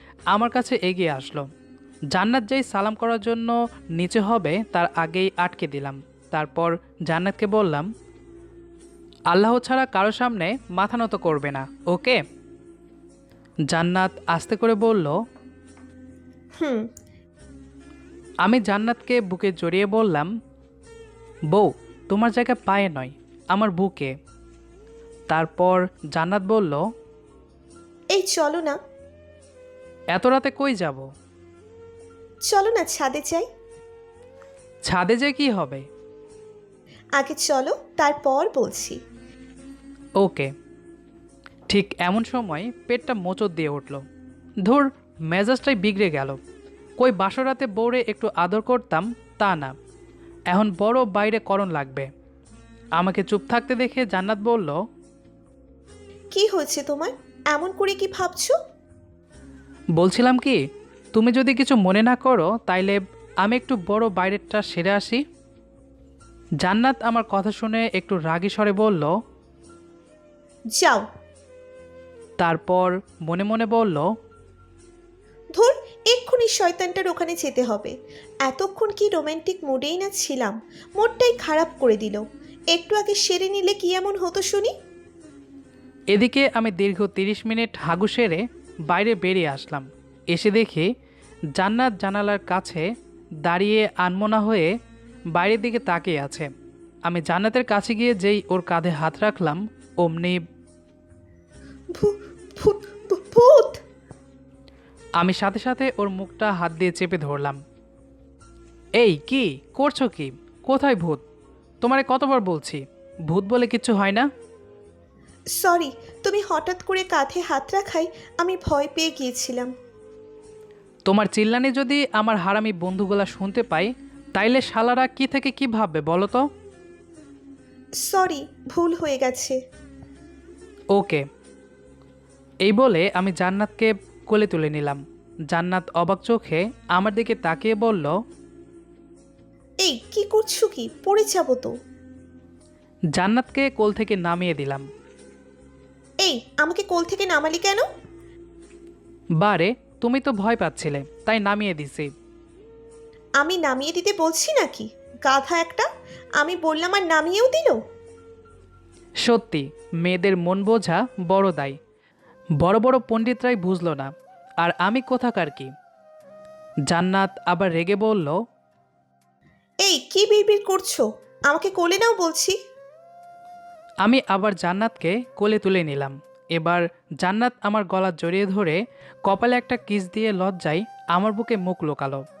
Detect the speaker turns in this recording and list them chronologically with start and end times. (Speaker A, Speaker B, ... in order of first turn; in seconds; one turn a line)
Speaker A: 0.3-1.4
Speaker A: 2.1-7.9
Speaker A: 9.3-12.2
Speaker A: 13.7-15.1
Speaker B: 16.6-16.9
Speaker A: 18.4-20.3
Speaker A: 21.5-24.1
Speaker A: 25.3-26.8
Speaker B: 28.1-28.8
Speaker A: 30.1-31.0
Speaker B: 32.5-33.5
Speaker A: 34.8-35.8
Speaker B: 37.2-39.0
Speaker A: 40.2-40.5
Speaker A: 41.7-44.0
Speaker A: 44.6-46.4
Speaker A: 47.0-49.7
Speaker A: 50.5-52.1
Speaker A: 53.0-54.7
Speaker B: 56.3-58.6
Speaker A: 60.0-60.6
Speaker A: 61.1-65.2
Speaker A: 66.6-69.1
Speaker B: 70.8-71.0
Speaker A: 72.4-74.0
Speaker B: 75.5-84.7
Speaker A: 86.1-90.9
Speaker A: 91.5-92.8
Speaker A: 93.4-94.7
Speaker A: 95.3-96.5
Speaker A: 97.0-100.4
Speaker B: 101.9-103.8
Speaker A: 105.2-107.6
Speaker A: 109.0-111.2
Speaker A: 111.8-114.2
Speaker B: 115.6-119.7
Speaker A: 121.1-126.4
Speaker B: 128.0-129.6
Speaker A: 130.9-131.2
Speaker A: 132.6-135.0
Speaker A: 135.5-138.1
Speaker B: 139.8-141.7
Speaker A: 143.1-144.8
Speaker B: 146.2-147.8
Speaker A: 149.4-152.1
Speaker B: 153.4-155.9
Speaker B: 156.4-157.8
Speaker A: 159.2-161.8
Speaker A: 162.6-164.1
Speaker A: 164.6-165.7
Speaker A: 166.9-168.3
Speaker B: 169.8-172.6
Speaker A: 174.0-182.2